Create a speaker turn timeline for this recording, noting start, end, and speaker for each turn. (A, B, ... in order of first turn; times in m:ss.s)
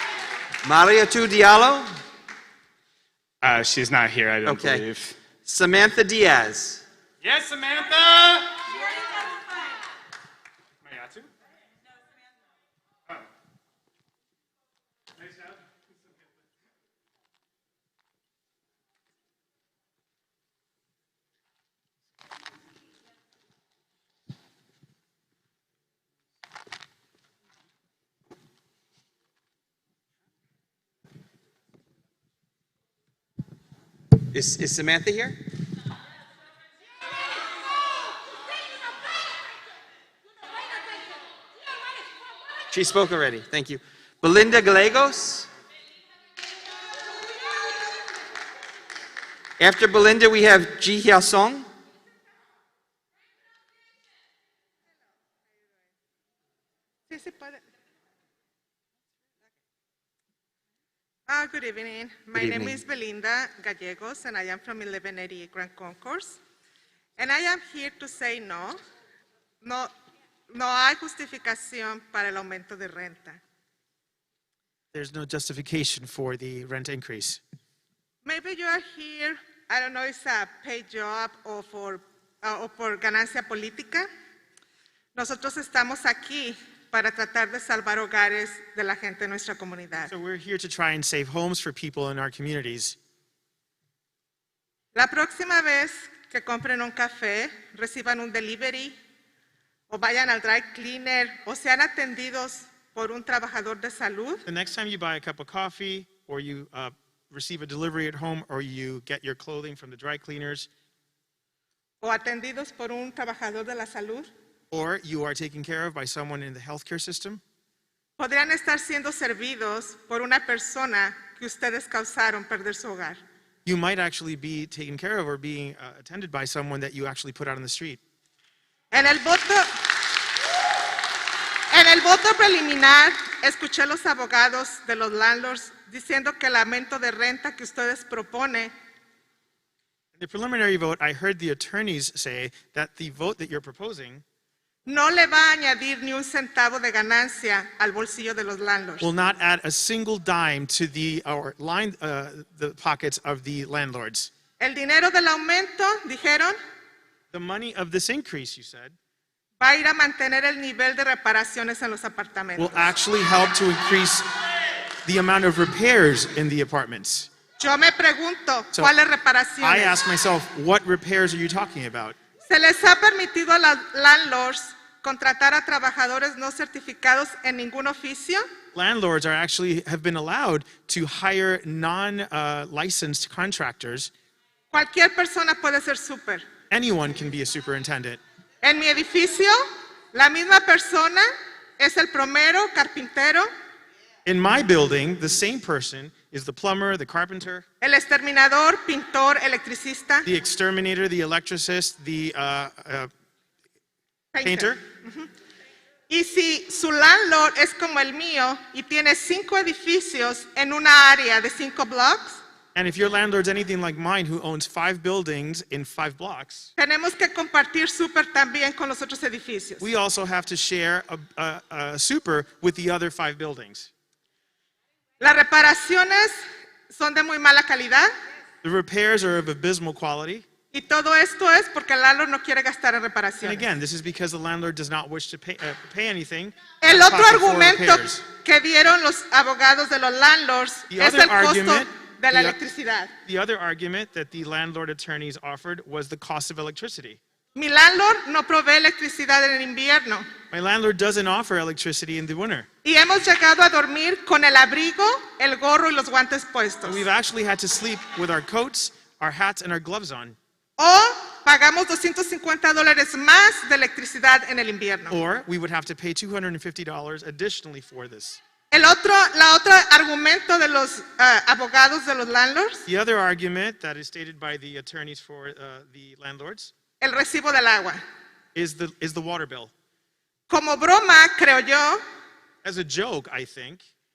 0:00.6-0:01.9 A
0:03.4-0:05.2 B
0:04.4-0:04.8 A
0:05.4-0:06.8 A
0:07.2-0:08.6 B
0:10.8-0:11.3 B
0:34.3-0:35.4 A
0:42.7-0:45.5 A
0:49.6-0:51.7 A
0:57.1-0:57.6 C
1:01.3-1:06.4 C
1:02.4-1:02.8 A
1:07.2-1:08.8 C
1:09.6-1:09.9 C
1:10.5-1:13.4 C
1:14.9-1:17.4 D
1:18.2-1:24.1 C
1:25.2-1:30.1 C
1:30.1-1:33.0 D
1:35.0-1:39.0 C
1:39.9-1:44.4 C
1:44.5-1:50.7 D
1:52.0-1:54.3 C
1:54.7-1:57.4 D
1:58.2-2:03.2 C
2:03.6-2:08.0 D
2:08.9-2:09.7 C
2:11.7-2:18.7 C
2:20.2-2:24.2 D
2:24.9-2:29.1 C
2:29.0-2:34.3 D
2:34.6-2:36.6 C
2:37.3-2:39.0 D
2:39.6-2:42.9 C
2:42.6-2:44.3 D
2:45.0-2:47.3 D
2:47.6-2:50.0 C
2:49.6-2:52.2 D
2:52.5-2:58.4 C
2:58.7-3:04.1 D
3:04.7-3:06.5 C
3:06.7-3:08.2 D
3:08.6-3:13.5 C
3:14.2-3:17.6 D
3:17.8-3:20.3 C
3:20.2-3:23.1 D
3:24.3-3:25.3 C
3:24.4-3:24.8 D
3:26.1-3:32.4 C
3:32.8-3:36.7 D
3:36.8-3:39.9 C
3:39.8-3:43.9 D
3:45.2-3:48.1 C
3:48.6-3:50.5 D
3:50.7-3:53.7 C
3:53.4-3:58.2 D
3:56.8-4:03.1 C
4:00.9-4:02.6 D
4:03.2-4:07.2 D
4:07.6-4:10.2 C
4:10.5-4:12.7 D
4:12.8-4:17.1 C
4:16.8-4:20.4 D
4:20.8-4:25.2 C
4:25.1-4:28.4 D
4:28.7-4:32.9 C
4:32.9-4:36.7 D
4:37.0-4:38.0 C
4:38.6-4:39.7 D
4:40.5-4:42.0 C
4:42.6-4:43.8 D